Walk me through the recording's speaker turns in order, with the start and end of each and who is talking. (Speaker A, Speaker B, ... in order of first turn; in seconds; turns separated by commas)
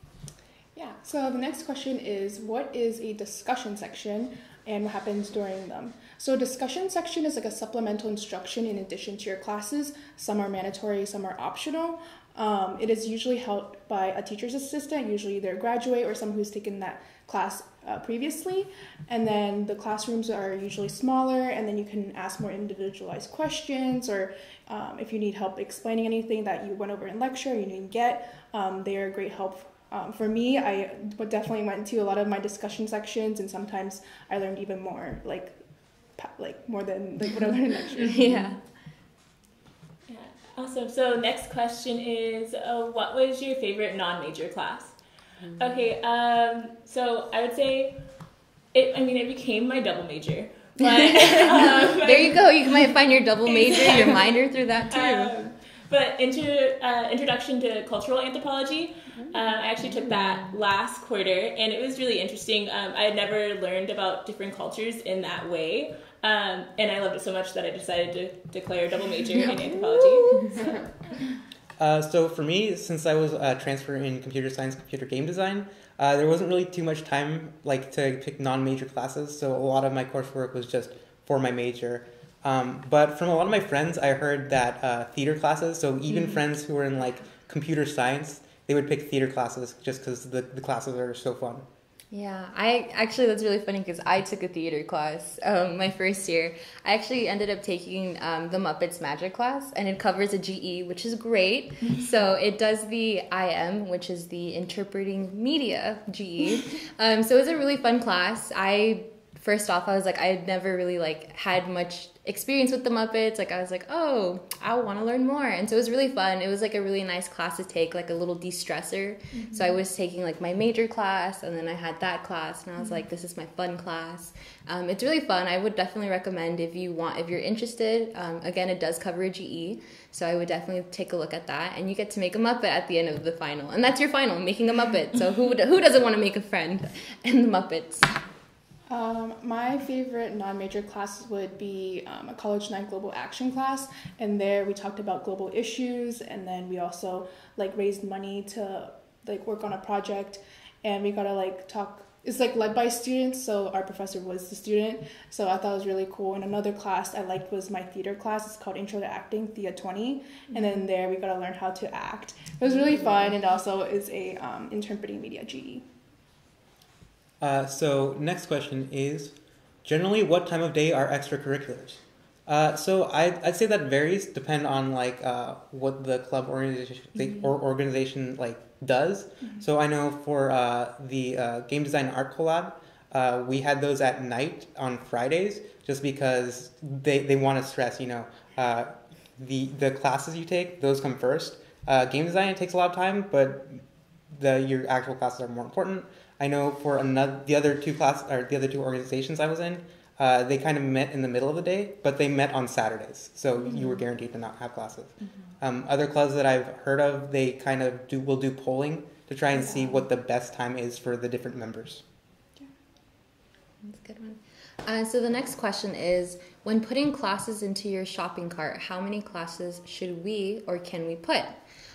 Speaker A: 0.8-35.5, Speaker A: 36.2-38.4, Speaker B: 38.0-38.6, Speaker C: 40.1-45.0, Speaker C: 45.6-47.9, Speaker C: 48.7-52.9, Speaker B: 50.9-55.3, Speaker C: 53.5-54.3, Speaker C: 54.9-70.8, Speaker B: 70.2-70.6, Speaker D: 71.8-91.6, Speaker B: 92.1-138.1, Speaker A: 138.9-165.8, Speaker D: 167.4-212.0, Speaker A: 209.6-210.0, Speaker B: 213.8-221.5